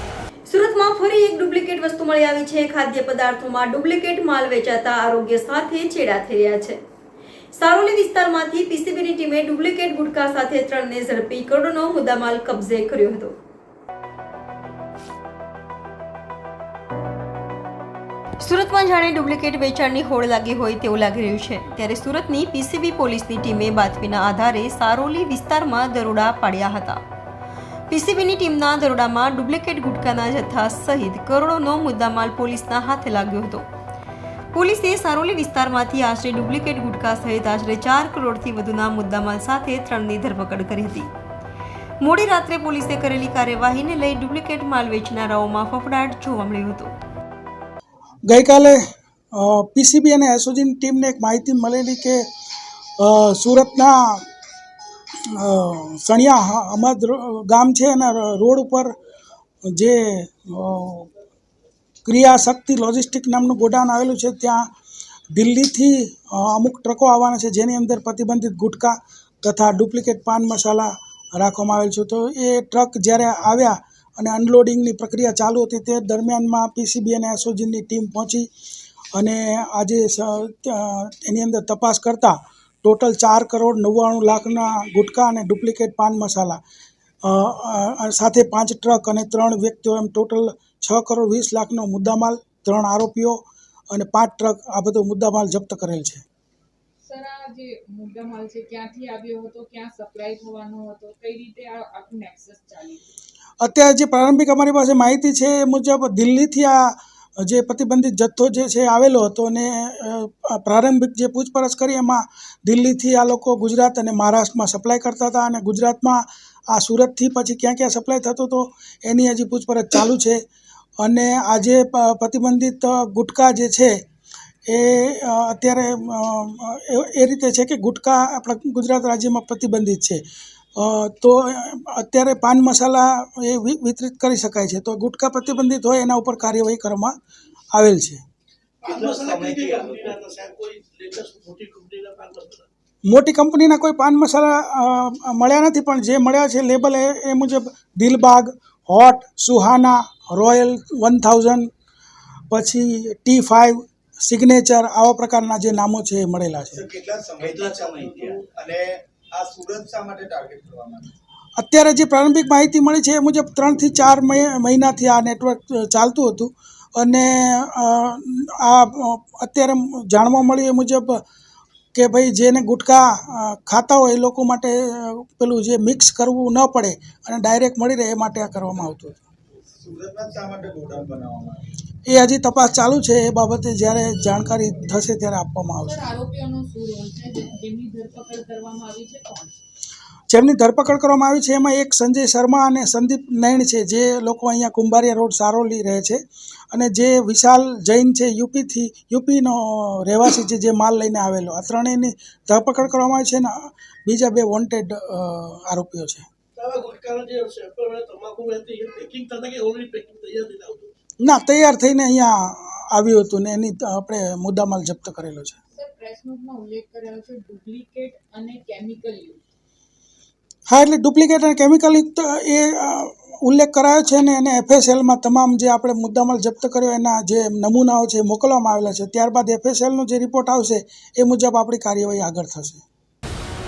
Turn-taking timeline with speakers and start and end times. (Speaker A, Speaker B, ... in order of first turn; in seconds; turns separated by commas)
Speaker A: 0.5-6.8, Speaker A: 7.5-13.3, Speaker A: 18.4-27.0, Speaker A: 27.9-33.6, Speaker A: 34.5-41.1, Speaker A: 42.0-46.9, Speaker B: 48.3-48.8, Speaker B: 49.3-52.2, Speaker B: 53.0-54.2, Speaker B: 55.4-58.9, Speaker B: 59.7-61.1, Speaker B: 62.0-64.7, Speaker B: 65.3-78.5, Speaker B: 79.2-86.6, Speaker B: 87.2-93.4, Speaker B: 93.9-96.2, Speaker C: 97.0-103.1, Speaker B: 103.6-120.4, Speaker B: 121.0-124.0, Speaker B: 124.7-130.2, Speaker B: 130.8-137.2, Speaker B: 137.7-138.2, Speaker D: 138.8-142.7, Speaker E: 138.8-140.2, Speaker B: 143.1-151.7, Speaker B: 152.5-156.8, Speaker E: 156.7-161.1, Speaker D: 157.4-158.5, Speaker B: 161.6-171.2, Speaker B: 171.9-179.2, Speaker E: 179.6-181.7, Speaker B: 182.1-186.0, Speaker C: 185.8-189.6, Speaker B: 190.3-196.2, Speaker B: 196.7-206.3, Speaker D: 206.6-210.9, Speaker B: 211.2-215.6, Speaker C: 215.7-219.4, Speaker B: 220.7-232.8